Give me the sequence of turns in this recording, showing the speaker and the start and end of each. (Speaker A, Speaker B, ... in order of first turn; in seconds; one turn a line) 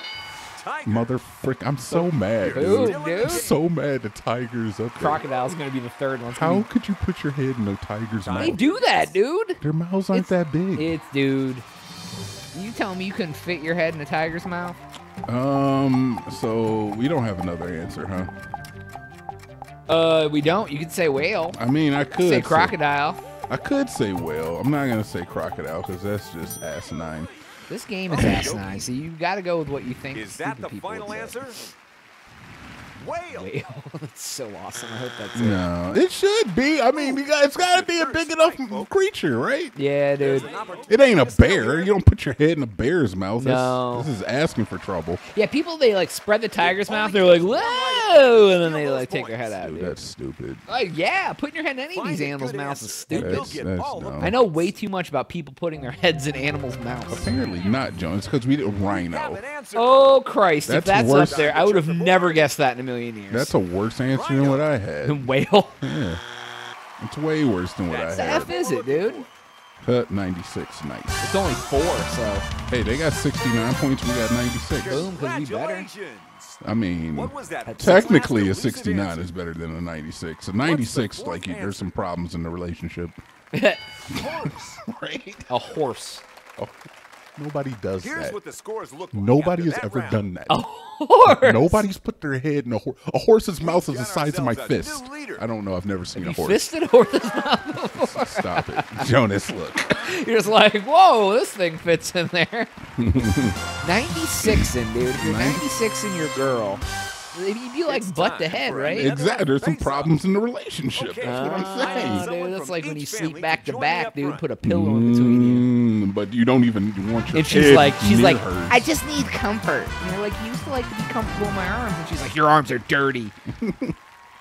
Speaker A: 0.6-1.1
Speaker B: 0.8-5.2
Speaker C: 1.9-3.5
Speaker A: 2.3-3.6
Speaker C: 5.0-6.7
Speaker B: 6.3-8.6
Speaker A: 8.2-9.2
Speaker C: 8.4-11.7
Speaker B: 9.6-10.9
Speaker C: 12.5-14.8
Speaker B: 15.3-18.3
Speaker C: 19.9-21.6
Speaker B: 21.5-22.8
Speaker C: 22.2-23.2
Speaker B: 23.5-27.3
Speaker C: 27.7-31.4
Speaker A: 28.1-28.9
Speaker A: 30.1-31.7
Speaker A: 32.9-33.5
Speaker C: 33.3-36.0
Speaker B: 35.3-39.7
Speaker A: 36.9-38.9
Speaker C: 39.8-40.5
Speaker A: 40.2-41.9
Speaker B: 40.9-45.2
Speaker C: 43.4-44.1
Speaker C: 45.3-50.0
Speaker A: 46.6-49.6
Speaker B: 49.6-50.6
Speaker C: 50.7-53.5
Speaker A: 51.9-54.7
Speaker B: 53.1-54.3
Speaker C: 54.2-57.3
Speaker B: 57.1-59.4
Speaker A: 58.9-60.2
Speaker C: 59.7-63.5
Speaker B: 60.7-61.5
Speaker A: 61.1-62.5
Speaker B: 63.3-65.3
Speaker A: 64.1-64.7
Speaker C: 65.0-65.8
Speaker B: 65.8-66.2
Speaker B: 67.0-68.5
Speaker A: 67.9-69.3
Speaker C: 68.1-69.2
Speaker B: 69.8-71.3
Speaker C: 71.2-72.5
Speaker B: 72.7-75.1
Speaker A: 74.8-76.6
Speaker C: 74.8-75.9
Speaker B: 76.6-83.2
Speaker A: 77.1-79.3
Speaker C: 77.7-78.2
Speaker A: 80.6-82.1
Speaker C: 83.5-83.8
Speaker B: 84.1-85.5
Speaker A: 84.1-84.8
Speaker C: 85.5-86.2
Speaker B: 87.3-88.3
Speaker A: 88.0-90.2
Speaker B: 89.1-90.6
Speaker C: 90.5-91.8
Speaker B: 91.2-96.7
Speaker A: 93.6-95.4
Speaker C: 96.1-99.1
Speaker B: 97.8-100.1
Speaker C: 99.9-102.7
Speaker B: 103.0-103.6
Speaker C: 103.8-109.2
Speaker B: 104.4-105.6
Speaker A: 107.9-110.1
Speaker B: 108.8-112.3
Speaker A: 110.9-114.5
Speaker C: 111.2-115.7
Speaker B: 114.6-118.9
Speaker C: 117.3-123.3
Speaker B: 123.5-124.0